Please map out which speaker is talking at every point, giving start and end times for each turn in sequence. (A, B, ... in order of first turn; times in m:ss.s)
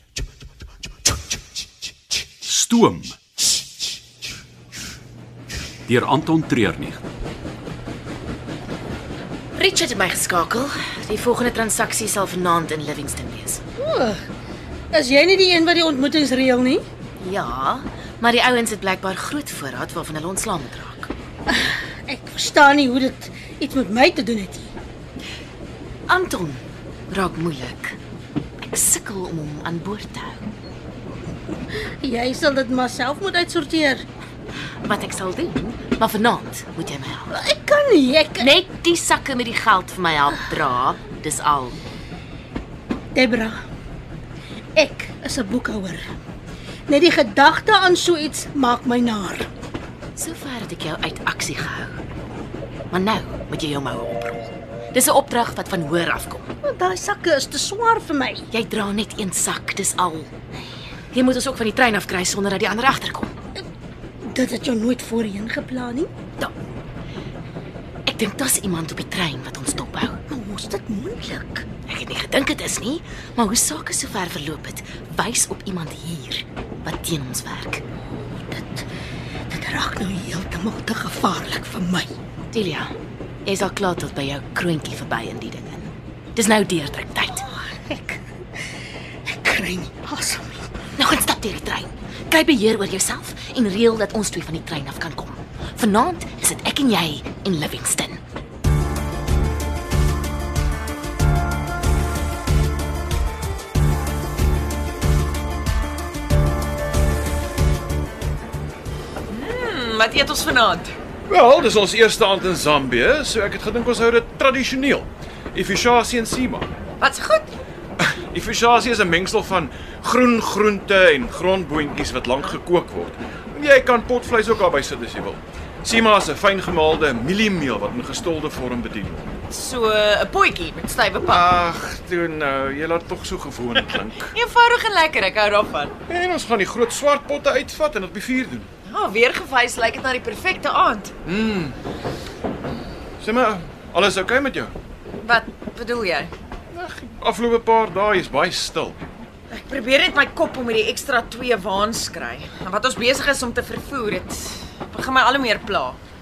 0:02.4-0:03.2 A
0:05.9-0:07.0 A
0:09.6-0:13.6 B
0:13.8-0:14.2 C
0:14.9-0:16.8 C
0:17.2-0:21.1 B
0:21.5-0:24.7 C
0:26.1-0:28.0 B
0:28.6-0:30.5 B
0:31.7-0:34.0 C
0:34.8-0:37.3 B
0:37.3-0:38.5 C
0:38.4-0:41.8 B
0:43.1-0:43.6 C
0:44.8-0:46.0 C
0:46.9-0:49.5 C
0:50.2-0:52.0 B
0:52.9-0:56.5 B
0:56.6-0:58.5 C
0:58.5-1:00.3 B
1:01.1-1:03.3 B
1:04.2-1:06.4 C
1:08.1-1:10.2 B
1:10.3-1:11.6 C
1:11.9-1:17.8 B
1:18.3-1:18.9 C
1:19.5-1:22.1 C
1:22.5-1:22.9 B
1:23.4-1:27.4 B
1:27.3-1:28.2 C
1:29.3-1:30.7 C
1:31.0-1:38.2 B
1:49.3-1:51.0 D
1:51.3-1:56.7 E
1:57.0-1:57.5 D
1:58.0-2:09.3 E
2:09.5-2:11.5 D
2:11.2-2:14.3 E
2:14.3-2:15.9 D
2:16.1-2:18.7 E
2:18.9-2:21.1 D
2:21.2-2:21.8 E
2:23.2-2:24.7 E
2:25.2-2:26.3 D
2:26.7-2:29.1 E
2:29.5-2:36.0 D